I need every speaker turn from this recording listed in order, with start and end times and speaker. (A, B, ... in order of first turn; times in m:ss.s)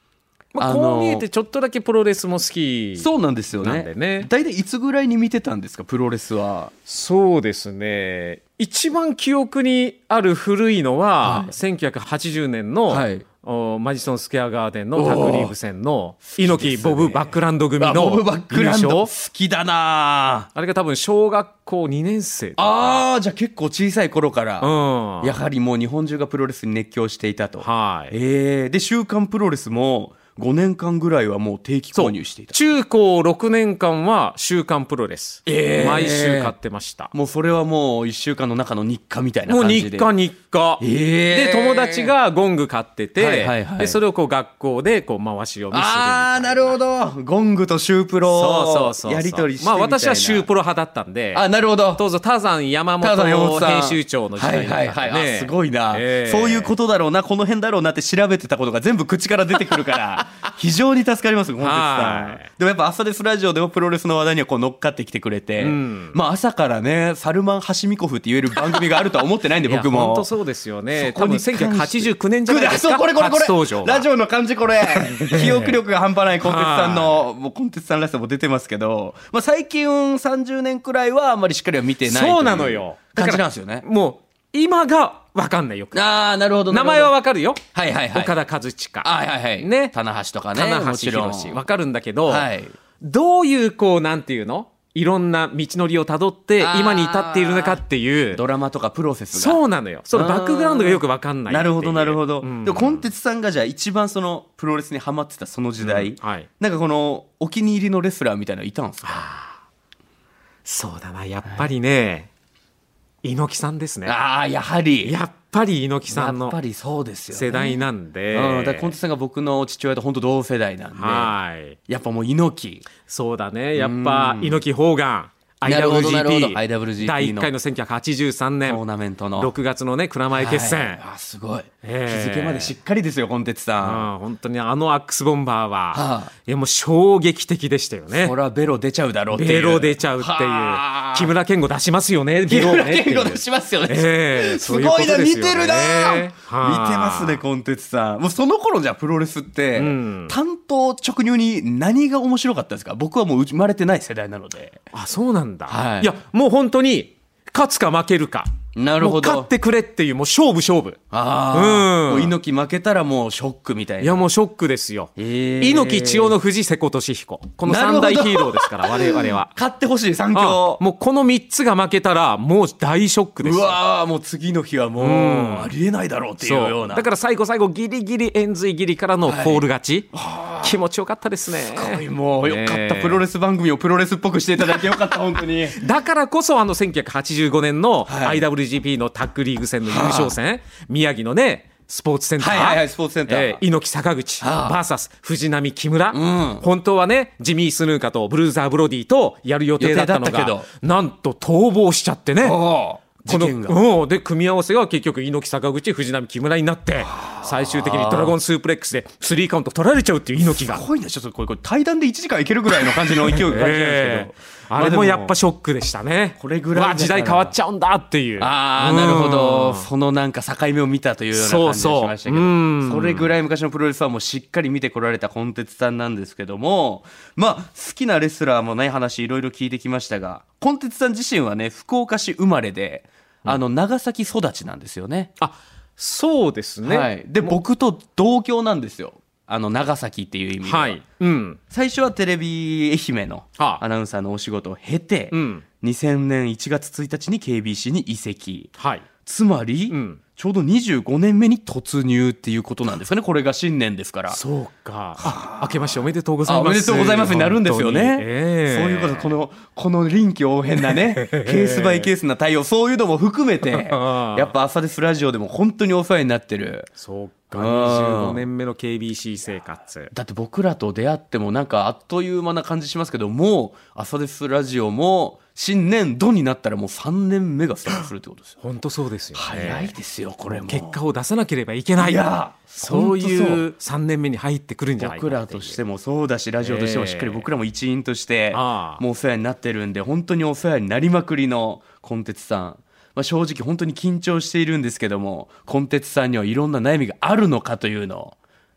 0:00.5-0:03.1 A
0:00.6-0:01.2 B
0:03.0-0:06.7 B
0:03.6-0:04.3 A
0:06.9-0:19.1 A
0:11.2-0:11.5 B
0:12.9-0:13.2 B
0:15.0-0:15.5 B
0:16.3-0:20.5 B
0:20.6-0:23.0 A
0:22.6-0:32.6 B
0:24.6-0:25.4 A
0:27.6-0:28.2 A
0:32.0-0:37.1 A
0:35.5-0:36.5 B
0:37.1-0:40.1 B
0:39.5-0:46.8 A
0:40.8-0:42.1 B
0:43.2-0:44.0 B
0:45.7-0:50.5 B
0:48.3-0:56.8 A
0:51.3-0:52.0 B
0:53.0-1:10.3 B
1:01.6-1:02.5 A
1:05.6-1:06.2 A
1:09.6-1:14.1 A
1:10.9-1:23.8 B
1:14.9-1:15.8 A
1:16.4-1:17.2 A
1:22.0-1:26.0 A
1:25.9-1:27.1 B
1:26.7-1:27.6 A
1:27.7-1:28.4 B
1:28.1-1:30.0 A
1:29.0-1:31.6 B
1:30.5-1:32.5 A
1:32.3-1:32.8 B
1:33.0-1:38.4 A
1:36.6-1:37.8 B
1:38.3-1:39.6 B
1:39.3-1:43.1 A
1:40.1-1:49.3 B
1:45.8-1:46.5 A
1:49.0-1:49.6 A
1:50.6-1:52.3 A
1:53.2-1:54.2 A
1:54.1-1:55.2 B
1:55.0-1:56.6 A
1:56.1-2:01.3 B
1:57.3-1:59.0 A
2:01.0-2:01.8 A
2:01.9-2:02.9 B
2:03.0-2:08.8 A
2:03.8-2:04.6 B
2:05.6-2:07.5 B
2:08.6-2:09.5 B
2:09.4-2:11.0 A
2:10.3-2:14.1 B
2:11.8-2:12.7 A
2:13.8-2:18.3 A
2:15.9-2:16.3 B
2:18.1-2:21.3 B
2:19.3-2:27.4 A
2:22.5-2:34.8 B
2:29.8-2:30.4 A
2:34.9-2:41.0 A
2:35.7-2:36.1 B
2:38.8-2:39.5 B
2:41.1-2:44.2 B
2:41.5-2:42.4 A
2:44.0-2:49.5 A
2:45.2-2:46.3 B
2:47.6-2:50.8 B
2:50.3-2:53.8 A
2:53.4-2:57.1 B
2:55.0-2:55.7 A
2:56.4-3:03.2 A
2:59.3-3:00.8 B
3:01.7-3:05.8 B
3:05.7-3:22.6 A
3:08.1-3:08.4 B
3:09.9-3:10.4 B
3:12.4-3:13.6 B
3:14.4-3:14.8 B
3:16.1-3:16.6 B
3:19.8-3:20.7 B
3:22.4-3:23.8 B
3:23.3-3:30.8 A
3:27.1-3:28.4 B
3:30.6-3:35.4 B
3:32.8-3:39.9 A
3:36.4-3:37.6 B
3:38.4-3:55.3 B
3:41.3-3:43.3 A
3:55.4-3:57.6 A
3:56.8-4:01.0 B
4:00.6-4:01.6 A
4:01.7-4:08.7 B
4:03.6-4:03.8 A
4:05.3-4:05.6 A
4:08.8-4:09.1 A
4:09.2-4:14.4 B
4:09.9-4:10.2 A
4:14.3-4:19.3 A
4:15.2-4:26.9 B
4:20.8-4:22.1 A
4:23.7-4:24.5 A
4:27.0-4:30.1 A
4:27.5-4:28.4 B
4:30.1-4:38.6 B
4:38.6-4:40.0 A
4:39.4-4:41.0 B
4:40.5-4:45.8 A
4:42.0-4:43.6 B
4:45.0-4:58.4 B
4:46.6-4:47.5 A
4:48.5-4:49.0 A